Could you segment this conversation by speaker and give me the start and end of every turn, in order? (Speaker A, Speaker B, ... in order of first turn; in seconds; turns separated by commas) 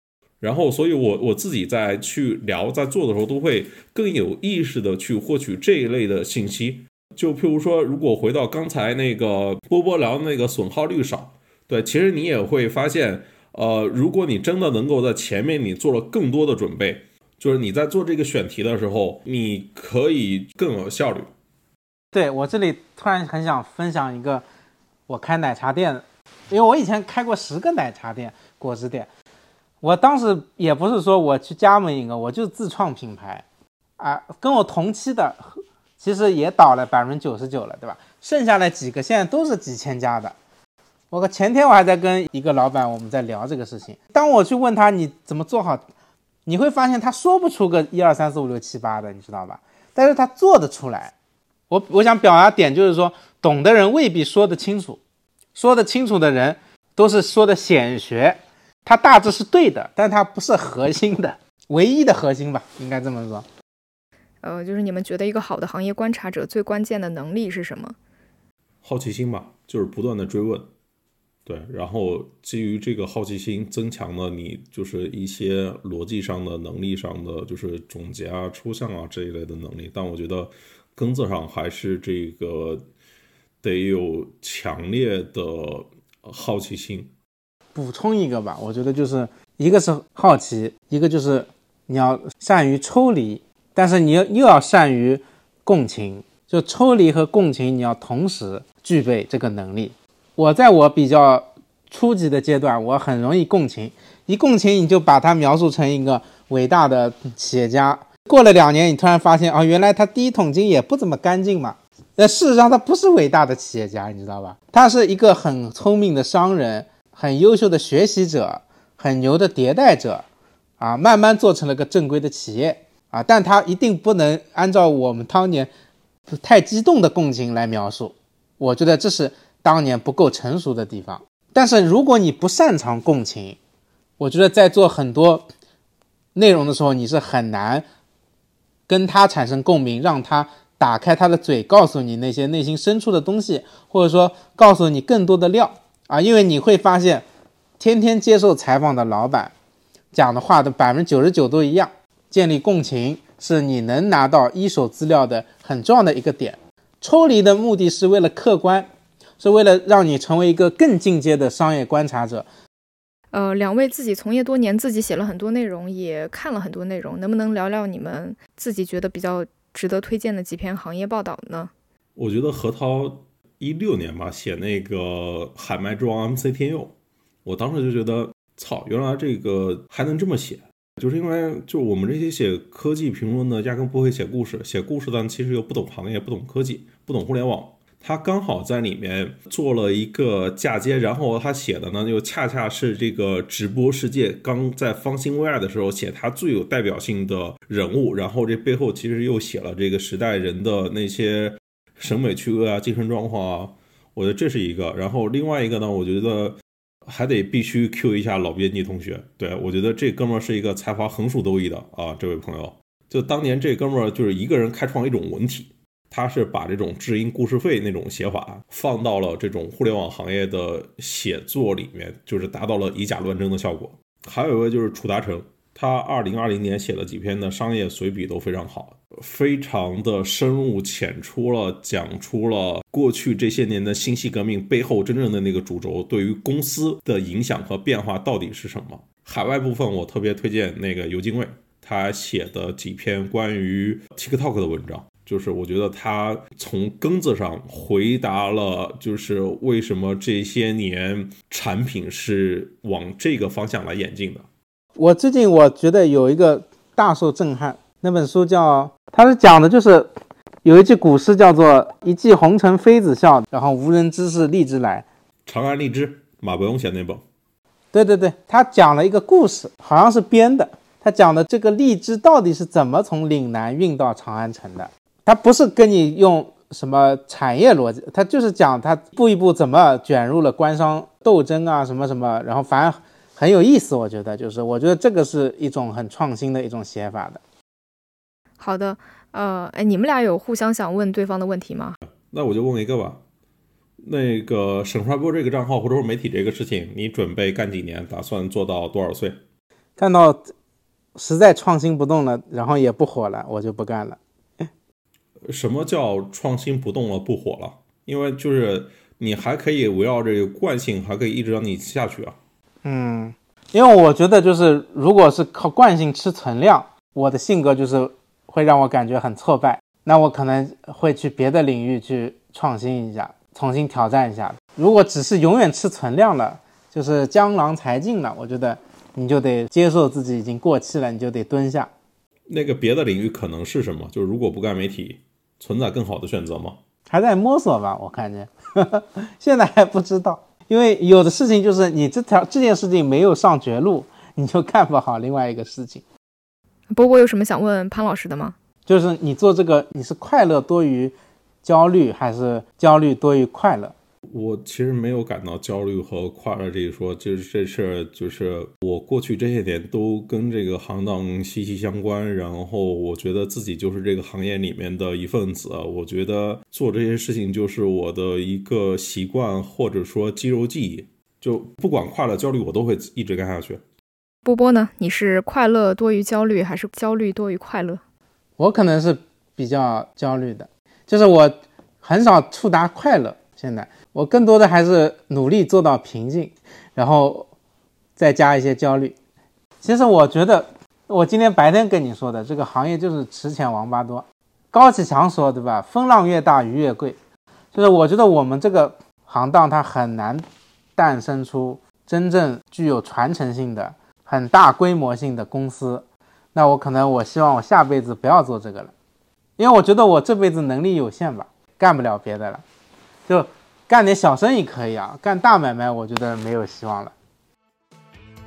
Speaker A: 0.4-21.3, Speaker B: 22.1-24.4, Speaker B: 25.1-29.1, Speaker B: 29.8-33.4, Speaker B: 34.0-40.4, Speaker B: 41.1-45.8, Speaker B: 46.5-51.1, Speaker B: 51.7-55.0, Speaker B: 55.5-63.4, Speaker C: 64.4-68.0, Speaker A: 68.8-70.7, Speaker A: 71.5-82.8, Speaker A: 83.6-87.1, Speaker B: 87.7-120.2, Speaker B: 120.8-125.7, Speaker B: 126.3-133.6, Speaker B: 134.2-135.5, Speaker B: 136.3-137.8, Speaker B: 138.9-147.2, Speaker B: 147.8-149.5, Speaker B: 150.1-158.9, Speaker B: 159.4-162.5, Speaker C: 163.3-171.7, Speaker A: 172.2-176.9, Speaker A: 177.4-254.4, Speaker B: 255.0-260.1, Speaker B: 260.6-265.1, Speaker A: 265.4-267.2, Speaker B: 267.9-287.4, Speaker C: 288.6-292.0, Speaker A: 292.3-293.2, Speaker A: 294.0-299.4, Speaker B: 300.0-300.5, Speaker B: 301.1-304.7, Speaker A: 305.5-312.4, Speaker B: 312.8-331.9, Speaker A: 332.5-336.8, Speaker B: 337.1-346.0, Speaker C: 346.9-348.5, Speaker B: 348.9-353.9, Speaker A: 354.3-373.8, Speaker C: 374.4-378.0, Speaker B: 378.6-387.5, Speaker B: 388.2-389.1, Speaker B: 389.8-397.2, Speaker B: 397.7-400.4, Speaker B: 401.0-408.9, Speaker B: 409.6-412.6, Speaker B: 413.3-417.1